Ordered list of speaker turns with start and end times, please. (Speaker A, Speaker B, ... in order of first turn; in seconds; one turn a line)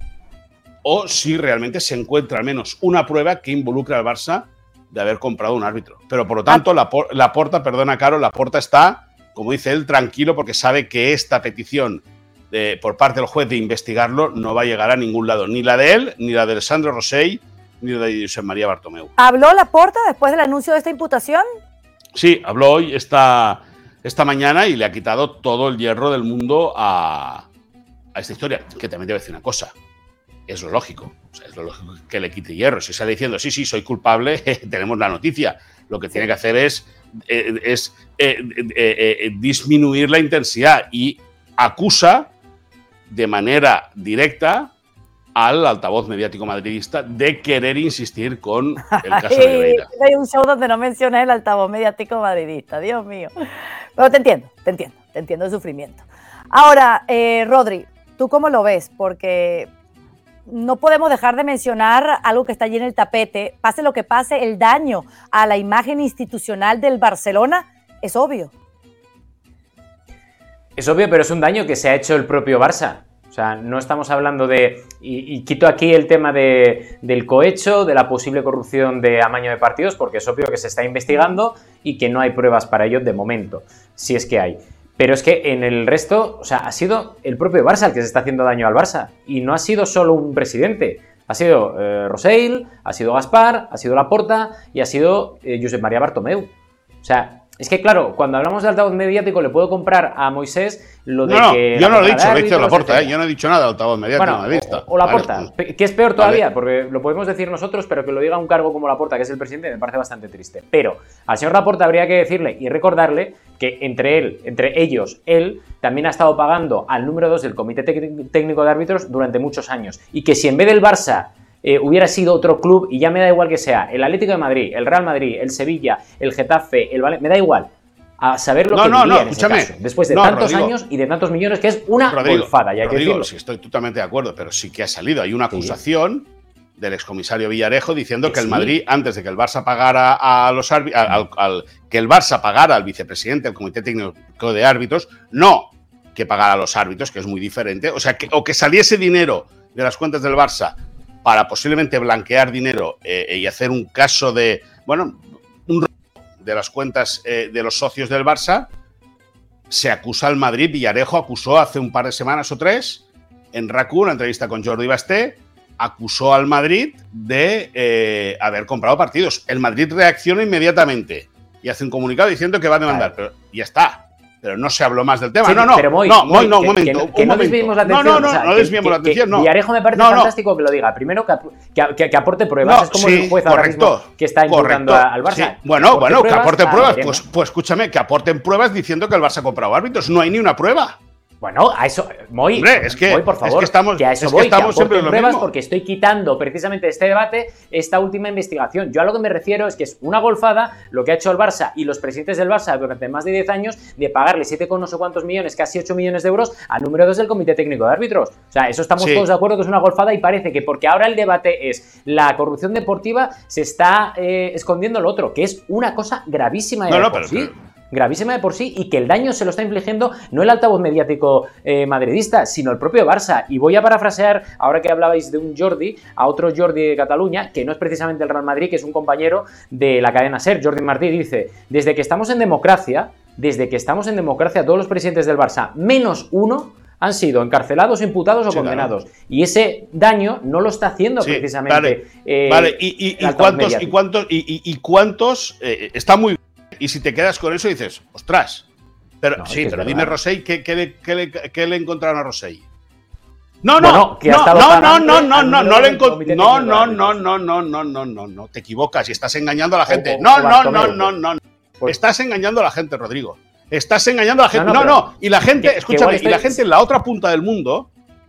Speaker A: 0.8-19.1
Speaker B: 19.2-21.4
Speaker A: 22.1-27.5
Speaker A: 28.1-29.7
Speaker A: 30.5-42.3
Speaker A: 43.1-44.7
Speaker A: 45.3-49.9
Speaker B: 49.0-53.3
Speaker B: 54.0-59.7
Speaker B: 60.5-68.5
Speaker C: 70.8-96.5
Speaker C: 97.0-103.2
Speaker A: 101.2-105.5
Speaker C: 104.2-133.3
Speaker A: 106.2-106.4
Speaker A: 128.7-130.7
Speaker A: 132.1-158.7
Speaker C: 138.2-138.7
Speaker A: 159.7-180.3
Speaker C: 175.4-187.2
Speaker A: 182.6-191.0
Speaker C: 191.4-243.9
Speaker A: 192.6-195.5
Speaker A: 209.0-209.3
Speaker A: 216.9-217.5
Speaker A: 238.5-238.9
Speaker A: 241.2-248.7
Speaker A: 249.2-252.6
Speaker C: 249.4-250.2
Speaker A: 253.6-267.9
Speaker C: 253.8-257.2
Speaker C: 259.9-261.1
Speaker C: 264.5-266.6